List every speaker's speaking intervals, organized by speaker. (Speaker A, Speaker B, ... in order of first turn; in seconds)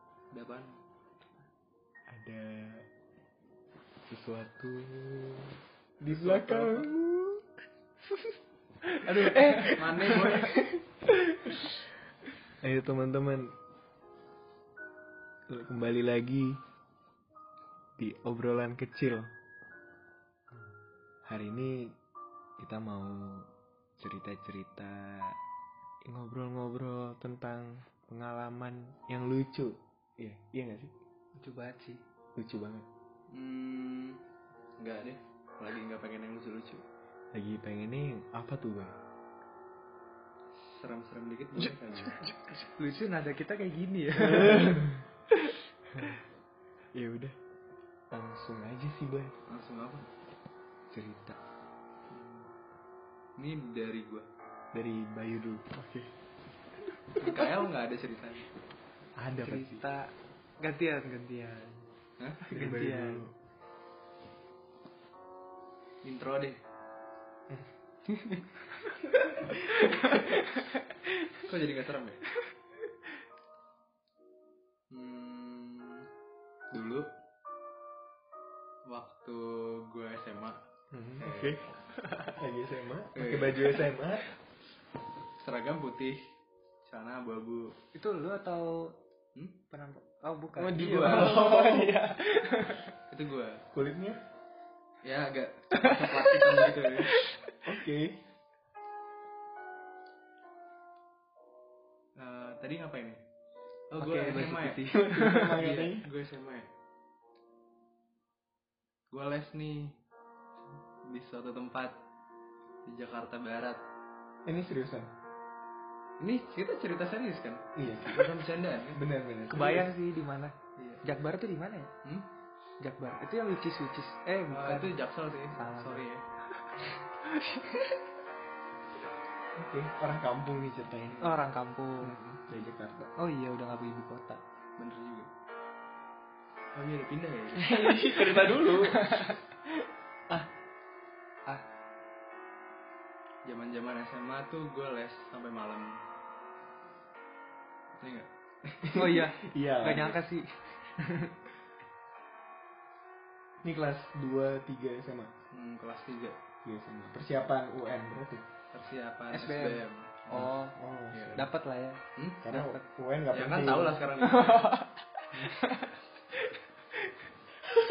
Speaker A: 0.3-0.8, 6.0-6.9, 9.0-10.6, 33.3-34.2, 34.8-36.8, 40.5-42.3, 49.5-50.0, 52.1-52.5, 53.4-54.2, 57.1-58.5, 62.2-62.8, 66.0-66.6, 71.4-72.2, 74.9-76.1, 76.7-77.1, 78.9-80.6, 81.2-81.6, 83.1-83.9, 85.4-86.2, 86.8-87.7, 90.8-91.7, 93.1-93.6, 95.0-97.2, 102.2-103.2, 103.9-106.7, 109.1-110.0, 111.0-112.0, 112.8-113.8, 116.2-119.0, 120.8-121.0, 122.0-122.3, 124.5-126.2, 134.8-135.3, 136.7-139.3, 143.4-146.0, 148.0-148.3, 155.5-156.4, 158.7-160.5, 161.1-161.5, 162.2-162.4, 163.3-164.8
Speaker B: 2.1-2.8, 4.1-5.5, 6.0-7.4, 9.4-11.8, 12.6-13.5, 15.5-16.6, 18.0-19.3, 21.2-21.9, 22.6-23.5, 24.0-25.4, 26.1-30.9, 32.4-32.9, 37.3-38.9, 41.6-42.6, 44.1-45.1, 45.9-46.2, 46.9-47.4, 48.1-49.3, 50.9-51.4, 54.7-56.1, 56.9-57.5, 59.1-59.8, 62.5-63.3, 67.5-68.5, 69.2-70.4, 80.9-81.6, 82.4-84.3, 90.6-91.9, 93.7-94.2, 97.6-98.1, 104.9-106.1, 114.5-115.1, 117.8-119.9, 129.6-131.3, 132.0-133.1, 138.1-138.9, 148.7-150.2, 153.6-155.3, 156.6-158.4, 160.3-161.5, 162.4-164.0
Speaker C: 8.9-10.5, 31.4-32.0, 42.1-44.8, 59.3-61.8, 62.5-63.2, 69.7-70.7, 82.0-82.3, 87.9-88.9, 89.7-92.9, 95.7-97.6, 104.0-105.6, 119.5-121.9, 122.8-125.0, 125.5-126.0, 131.2-132.1, 133.2-134.4, 137.6-139.4, 148.9-151.3, 159.3-160.8, 161.3-162.8, 164.2-165.9